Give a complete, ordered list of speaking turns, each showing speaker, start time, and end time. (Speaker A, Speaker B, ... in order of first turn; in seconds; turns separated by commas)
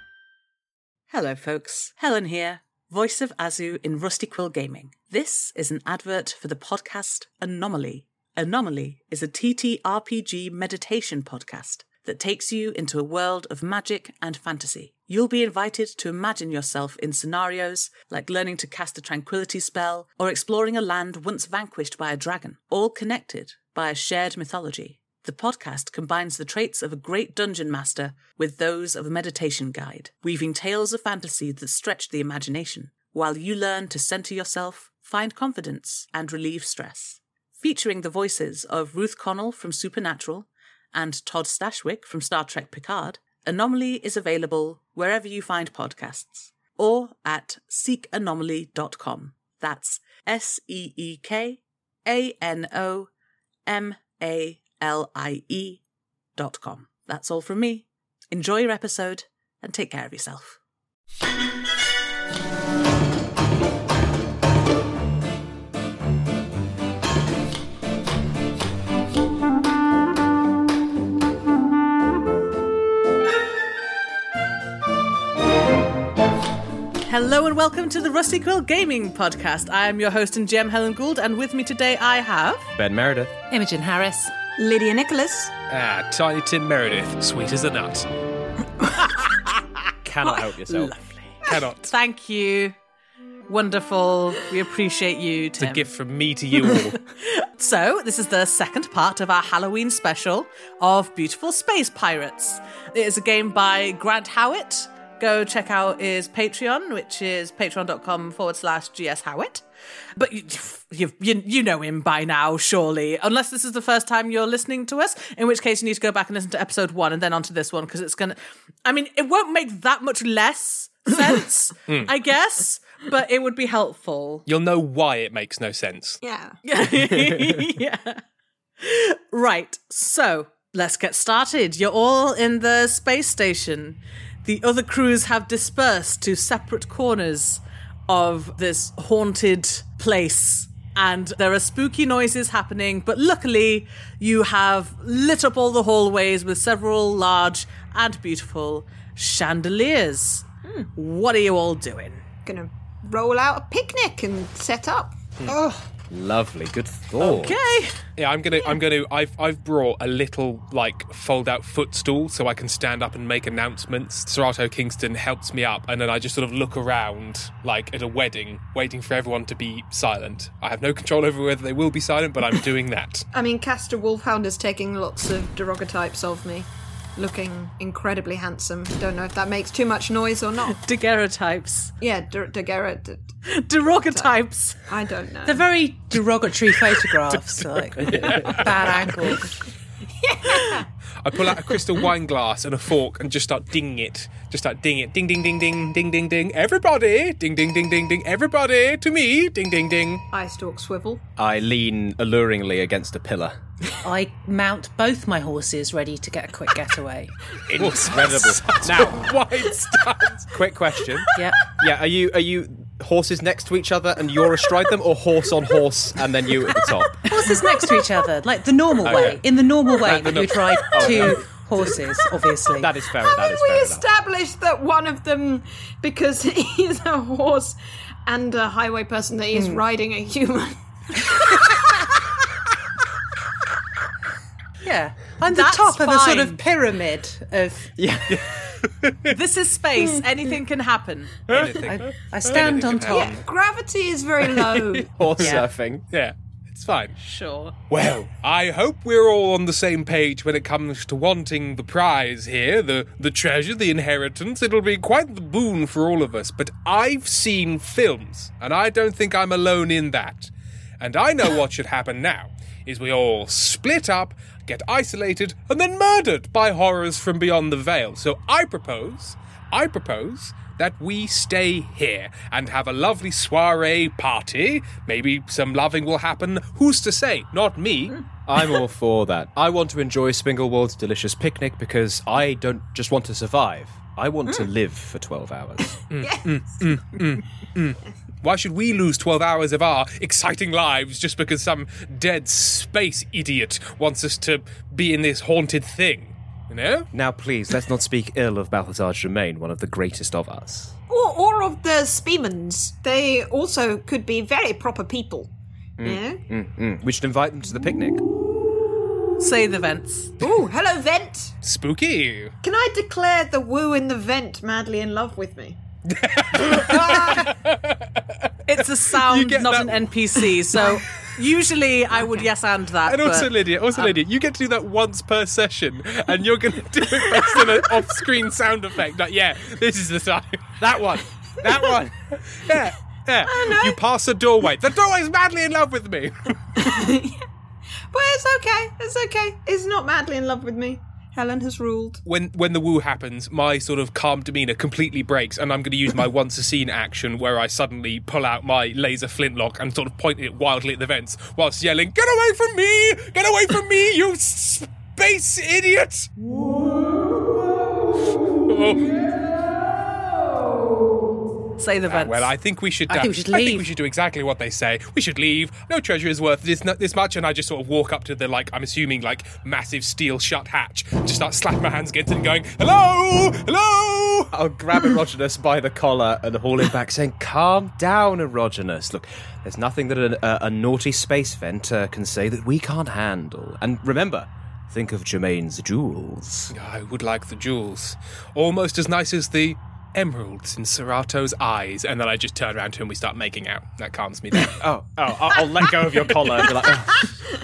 Speaker A: 1.1-53.1, Speaker A: 53.7-55.8, Speaker A: 56.4-60.6, Speaker A: 77.1-82.7, Speaker B: 82.8-83.3, Speaker C: 83.5-84.3, Speaker D: 84.6-85.5, Speaker E: 85.7-88.1, Speaker B: 90.0-91.2, Speaker A: 90.7-91.0, Speaker E: 91.5-91.9, Speaker A: 91.5-92.8, Speaker A: 93.5-95.9, Speaker E: 95.6-97.0, Speaker A: 97.2-109.6, Speaker A: 110.2-124.5, Speaker E: 124.5-126.2, Speaker D: 126.2-126.6, Speaker A: 126.6-128.2, Speaker A: 128.8-152.2, Speaker D: 152.5-155.2, Speaker B: 155.5-157.6, Speaker A: 157.2-158.0, Speaker E: 158.2-173.3, Speaker D: 173.3-180.8, Speaker A: 180.7-181.9, Speaker D: 182.0-183.3, Speaker A: 183.5-184.8, Speaker D: 184.9-185.7, Speaker C: 185.4-189.5, Speaker E: 188.1-188.6, Speaker D: 190.2-190.9, Speaker E: 191.2-200.2, Speaker D: 200.3-201.2, Speaker B: 201.4-203.6, Speaker C: 204.0-207.3, Speaker E: 207.7-210.5, Speaker B: 207.7-209.3, Speaker B: 210.5-217.3, Speaker C: 211.3-211.6, Speaker C: 217.3-222.9, Speaker B: 219.0-219.4, Speaker E: 219.1-219.4, Speaker E: 220.1-221.4, Speaker B: 220.9-221.4, Speaker B: 222.8-224.1, Speaker D: 223.2-232.0, Speaker C: 229.5-229.8, Speaker C: 234.8-237.9, Speaker A: 235.5-236.6, Speaker B: 238.0-238.5, Speaker E: 238.4-239.3, Speaker A: 239.3-241.4, Speaker E: 241.5-243.4, Speaker C: 241.9-243.3, Speaker D: 243.1-245.1, Speaker B: 245.1-246.0, Speaker E: 246.1-247.2, Speaker A: 247.2-247.7, Speaker E: 247.9-278.2, Speaker B: 278.5-286.0, Speaker E: 286.1-297.1, Speaker D: 286.2-287.2, Speaker B: 297.1-300.9, Speaker D: 301.1-305.5, Speaker B: 306.0-308.2, Speaker D: 306.0-306.4, Speaker A: 309.4-310.4, Speaker D: 310.4-311.6, Speaker E: 311.6-312.5, Speaker D: 312.6-315.8, Speaker E: 316.1-318.0, Speaker D: 316.7-317.5, Speaker A: 318.7-324.1, Speaker E: 319.2-320.4, Speaker D: 322.1-322.5, Speaker E: 323.1-331.0, Speaker B: 330.8-332.2, Speaker E: 332.5-336.7, Speaker D: 333.5-334.0, Speaker D: 336.8-337.4, Speaker D: 338.1-342.2, Speaker E: 342.3-356.3, Speaker E: 358.6-359.5, Speaker A: 361.8-362.5, Speaker E: 362.1-374.5, Speaker C: 363.1-363.9, Speaker B: 374.5-386.7, Speaker E: 386.7-394.8, Speaker B: 394.6-397.3